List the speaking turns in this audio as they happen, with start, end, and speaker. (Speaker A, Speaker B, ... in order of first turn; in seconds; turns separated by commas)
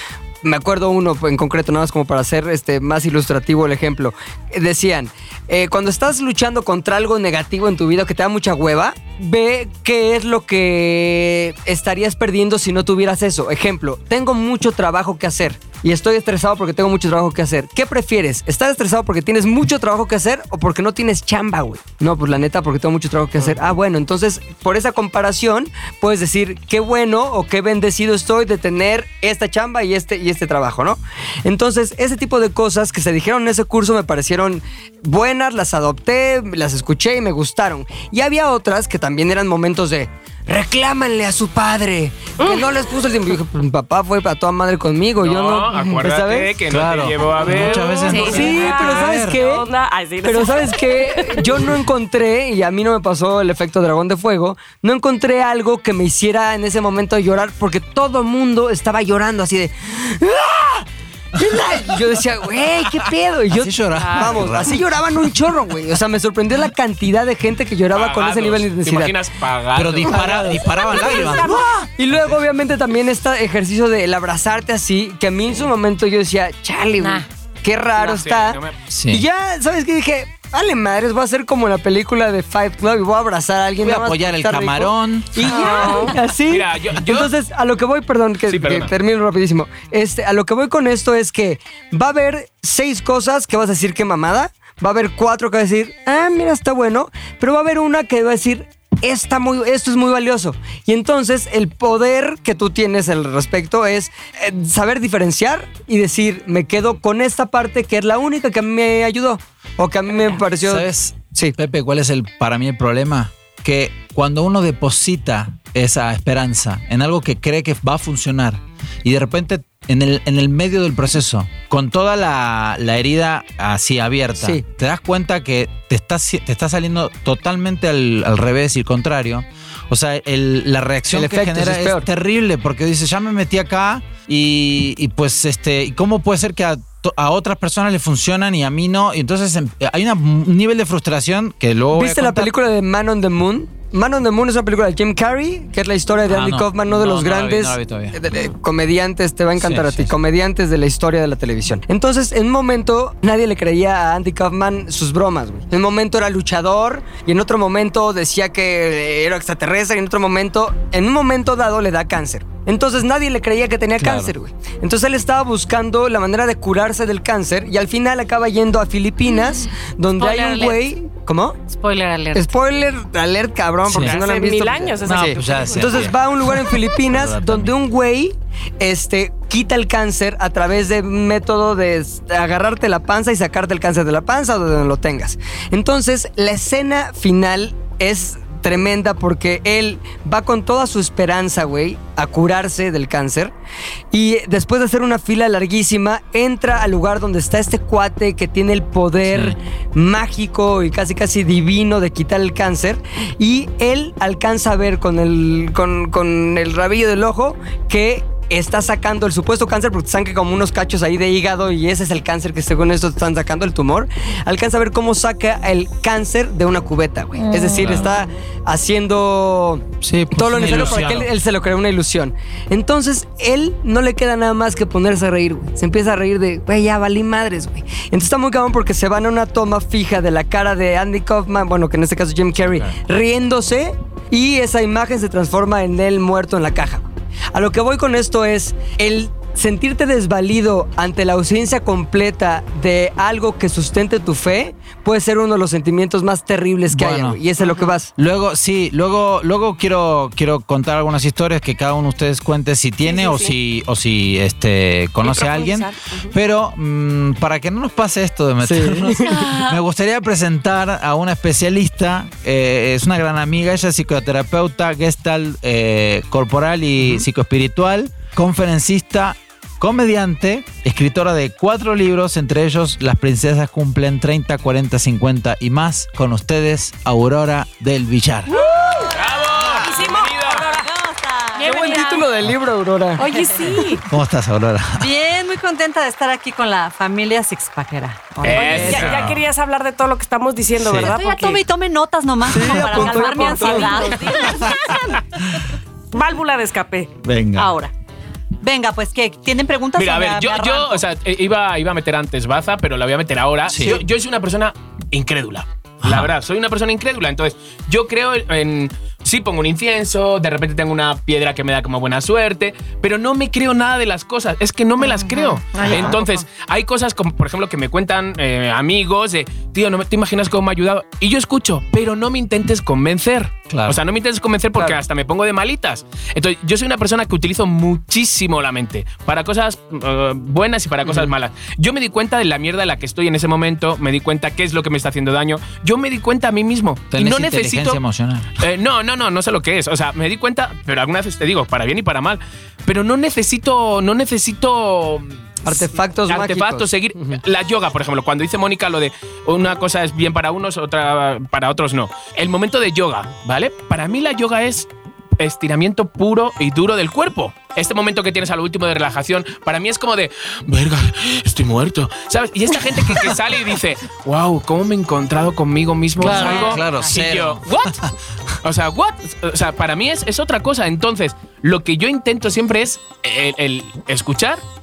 Speaker A: 0.4-46.5, Speaker B: 42.4-42.8, Speaker C: 45.2-48.5, Speaker D: 46.7-49.4, Speaker A: 47.4-49.7, Speaker B: 47.5-51.7, Speaker E: 48.1-48.4, Speaker A: 50.2-69.2, Speaker D: 61.4-62.1, Speaker D: 62.8-65.3, Speaker B: 64.0-64.3, Speaker C: 67.9-70.4, Speaker D: 69.8-72.4, Speaker A: 70.0-111.5, Speaker B: 70.7-71.9, Speaker E: 77.0-77.2, Speaker C: 78.0-78.8, Speaker D: 78.9-79.2, Speaker D: 83.8-85.5, Speaker B: 85.4-86.2, Speaker C: 86.5-87.3, Speaker C: 88.5-88.9, Speaker D: 110.6-142.5, Speaker A: 131.1-132.1, Speaker A: 141.9-171.6, Speaker D: 146.3-148.2, Speaker D: 149.6-150.1, Speaker D: 164.0-164.3, Speaker E: 170.2-170.9, Speaker E: 171.7-172.5, Speaker A: 172.3-193.5, Speaker D: 173.9-174.2, Speaker B: 173.9-176.1, Speaker D: 175.1-177.7, Speaker A: 194.1-248.1, Speaker D: 199.2-199.6, Speaker D: 217.7-218.1, Speaker D: 220.0-221.3, Speaker D: 246.9-247.4, Speaker B: 247.6-247.9, Speaker D: 248.2-278.5, Speaker B: 253.0-253.6, Speaker B: 255.2-256.3, Speaker A: 258.6-259.4, Speaker E: 259.2-259.8, Speaker B: 278.5-279.1, Speaker F: 278.6-282.0, Speaker C: 279.1-280.7, Speaker B: 279.7-280.9, Speaker B: 281.6-282.2, Speaker E: 281.6-282.2, Speaker A: 281.6-283.3, Speaker B: 283.1-284.0, Speaker D: 284.1-285.1, Speaker F: 285.0-289.1, Speaker C: 288.4-289.3, Speaker B: 288.5-291.6, Speaker D: 288.9-289.4, Speaker D: 290.8-291.1, Speaker F: 291.0-295.2, Speaker A: 292.5-294.4, Speaker D: 292.5-293.1, Speaker B: 293.3-295.1, Speaker B: 296.1-297.1, Speaker D: 297.2-297.7, Speaker F: 297.6-297.9, Speaker F: 298.6-301.1, Speaker C: 300.0-338.0, Speaker D: 303.6-304.0, Speaker D: 306.0-306.3, Speaker E: 315.0-316.4, Speaker D: 315.8-316.2, Speaker D: 323.7-324.0, Speaker A: 331.1-331.3, Speaker D: 337.1-338.6, Speaker C: 338.6-354.9, Speaker A: 345.6-347.4, Speaker C: 355.4-368.0, Speaker A: 366.2-366.7, Speaker D: 366.2-368.1, Speaker C: 368.6-374.6